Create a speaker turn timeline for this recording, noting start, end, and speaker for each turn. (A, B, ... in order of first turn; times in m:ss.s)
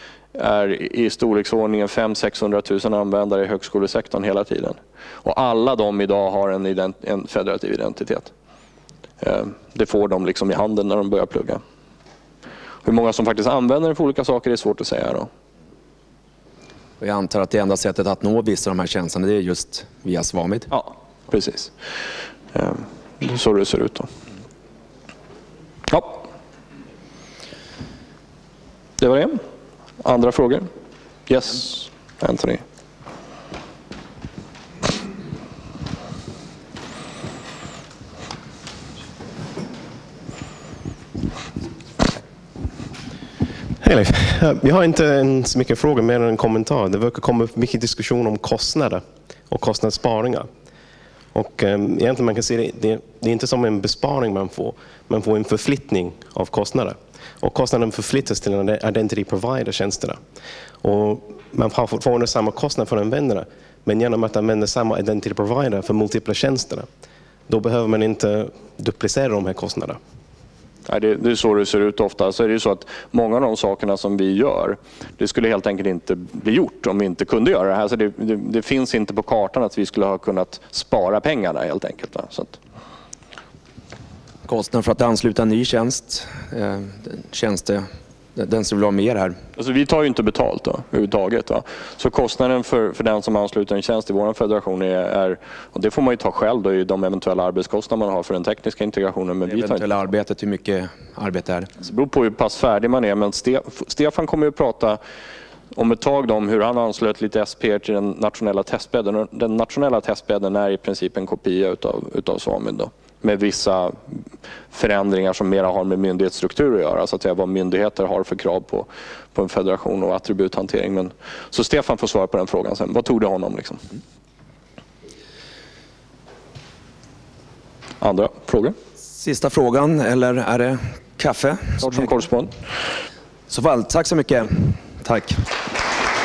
0:00.3-0:08.3 A
0:09.2-0:11.6 A
0:12.8-0:15.3 A
0:17.0-0:20.7 B
0:20.7-0:21.7 A
0:22.5-0:24.1 A
0:25.9-0:26.2 A
0:29.0-0:29.4 A
0:30.0-0:30.7 A
0:31.3-0:32.6 A
0:43.8-0:50.5 C
0:51.3-1:00.2 C
1:00.8-1:06.9 C
1:07.5-1:10.0 C
1:10.9-1:22.6 A
1:24.4-1:29.4 B
1:29.6-1:39.8 A
1:39.4-1:41.7 B
1:41.8-1:45.0 A
1:45.7-1:54.2 A
1:54.7-2:03.8 A
2:08.0-2:08.7 A
2:09.1-2:12.1 B
2:11.8-2:12.5 A
2:13.5-2:15.4 B